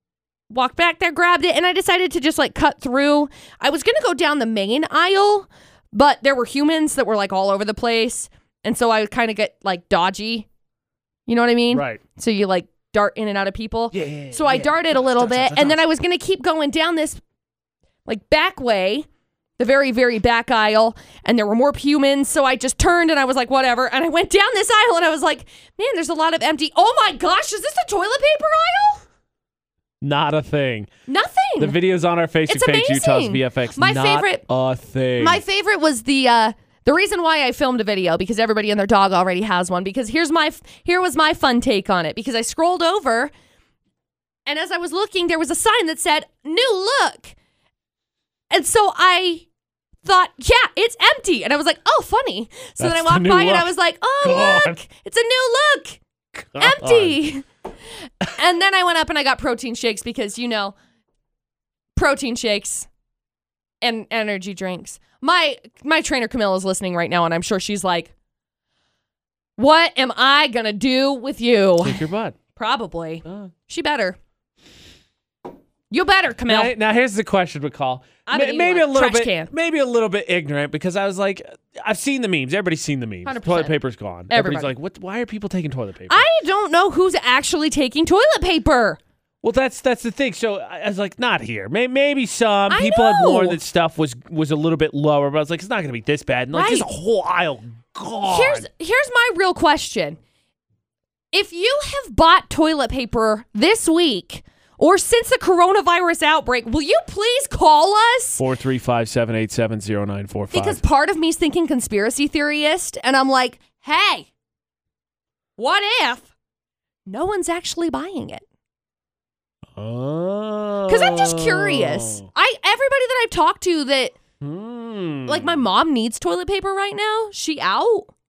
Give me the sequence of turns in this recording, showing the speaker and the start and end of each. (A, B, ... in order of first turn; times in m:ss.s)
0:00.5-0:10.4 A
0:11.3-0:17.2 A
0:11.7-0:12.0 B
0:13.9-0:15.8 B
0:18.0-0:19.0 A
0:19.6-0:29.0 A
0:30.0-0:30.9 B
0:31.1-0:31.8 A
0:31.6-0:35.4 B
0:32.5-0:34.4 A
0:35.2-0:43.3 A
0:44.5-0:47.3 A
0:48.5-0:49.4 A
0:50.0-0:56.0 A
0:52.8-0:53.7 B
0:54.2-0:54.8 B
0:56.4-0:57.2 B
0:56.6-0:57.4 A
0:58.3-1:00.7 A
1:02.0-1:02.9 A
1:03.8-1:08.1 A
1:09.6-1:12.0 A
1:11.8-1:12.4 B
1:12.6-1:14.2 A
1:13.2-1:13.5 B
1:15.9-1:16.7 A
1:16.5-1:26.2 B
1:18.3-1:19.5 A
1:23.2-1:23.8 A
1:24.3-1:24.7 A
1:26.1-1:29.0 A
1:29.4-1:38.6 B
1:32.7-1:33.6 A
1:36.5-1:36.9 A
1:38.3-1:40.2 A
1:41.3-1:48.4 A
1:48.4-1:50.8 B
1:50.5-1:54.2 A
1:55.6-1:56.3 A
1:57.0-1:58.4 A
1:59.8-2:02.3 B
2:00.9-2:04.2 A
2:04.4-2:05.6 B
2:05.3-2:08.1 A